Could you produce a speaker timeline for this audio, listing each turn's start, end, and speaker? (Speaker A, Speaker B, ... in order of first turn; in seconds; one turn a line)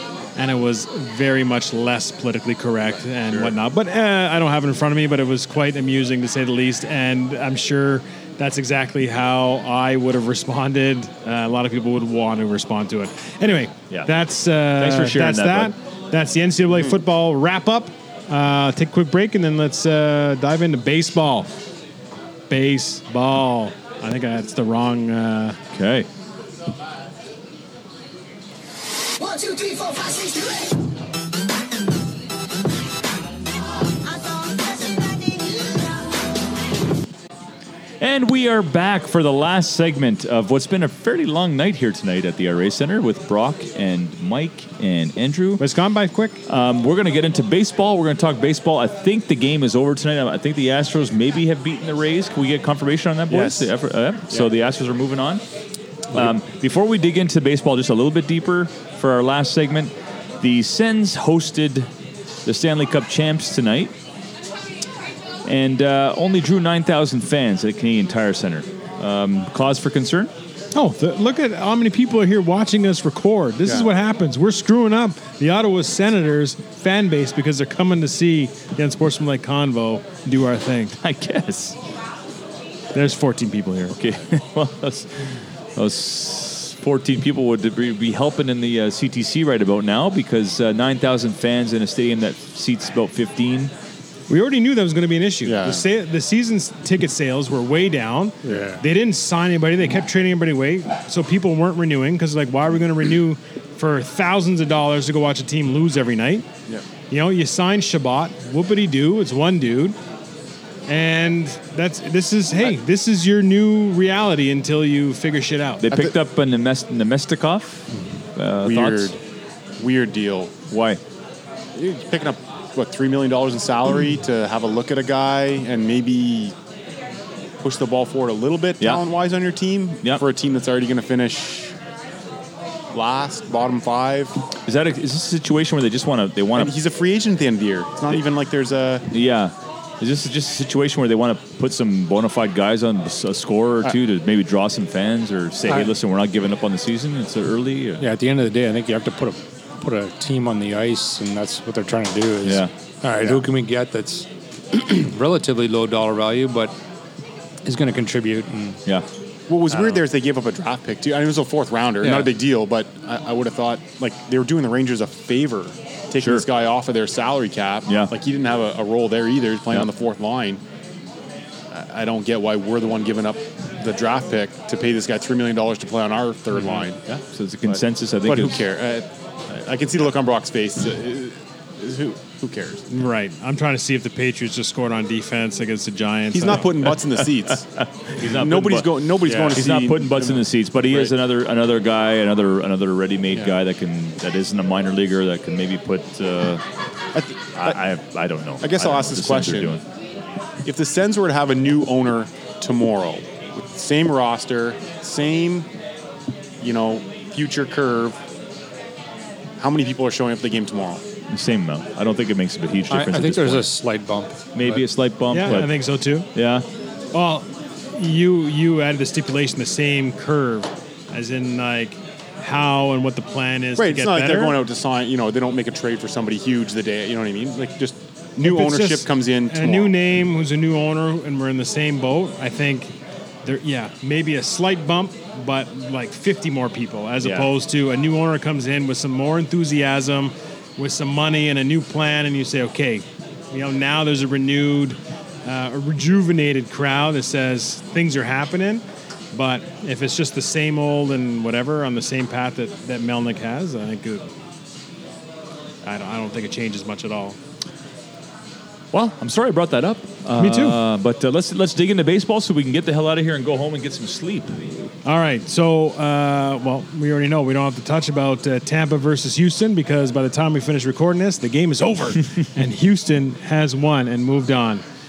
Speaker A: 0.3-21.5
Speaker B: 14.8-15.7
Speaker A: 22.5-25.6
Speaker B: 25.7-26.1
Speaker C: 29.2-30.7
Speaker C: 34.1-35.8
Speaker B: 38.0-45.6
Speaker A: 45.6-46.4
Speaker B: 46.5-55.4
Speaker D: 53.3-53.7
Speaker B: 56.1-61.9
Speaker B: 62.4-63.9
Speaker B: 65.4-70.3
Speaker A: 70.7-81.0
Speaker B: 81.0-81.8
Speaker A: 82.9-84.0
Speaker B: 83.9-93.7
Speaker A: 94.3-106.5
Speaker D: 95.4-95.8
Speaker E: 98.4-98.8
Speaker A: 107.1-110.0
Speaker A: 110.9-115.8
Speaker B: 115.8-119.2
Speaker D: 118.6-119.2
Speaker D: 119.8-120.5
Speaker B: 120.7-121.0
Speaker D: 121.7-126.5
Speaker D: 127.6-131.7
Speaker D: 132.9-134.3
Speaker B: 134.7-136.7
Speaker D: 136.6-139.1
Speaker B: 139.1-148.1
Speaker E: 145.7-145.9
Speaker E: 148.0-156.7
Speaker B: 152.4-152.7
Speaker E: 157.6-158.8
Speaker D: 159.5-170.6
Speaker E: 159.7-160.0
Speaker E: 162.0-162.3
Speaker B: 166.2-166.4
Speaker B: 167.8-168.1
Speaker D: 171.7-177.0
Speaker B: 176.5-178.6
Speaker D: 177.7-182.8
Speaker A: 182.9-186.7
Speaker D: 186.3-187.7
Speaker B: 187.8-196.6
Speaker D: 188.2-191.1
Speaker E: 189.2-189.6
Speaker D: 197.1-197.8
Speaker B: 197.6-199.8
Speaker D: 198.6-199.8
Speaker D: 200.6-205.7
Speaker D: 206.6-208.2
Speaker D: 209.6-211.0
Speaker B: 211.3-213.7
Speaker E: 212.9-214.8
Speaker B: 214.5-215.8
Speaker A: 215.3-216.3
Speaker B: 216.3-216.7
Speaker A: 217.1-224.6
Speaker D: 223.8-229.9
Speaker A: 228.4-232.9
Speaker A: 233.4-254.3
Speaker B: 237.2-237.5
Speaker A: 255.8-257.4
Speaker B: 258.9-264.9
Speaker A: 260.4-260.8
Speaker A: 265.0-274.8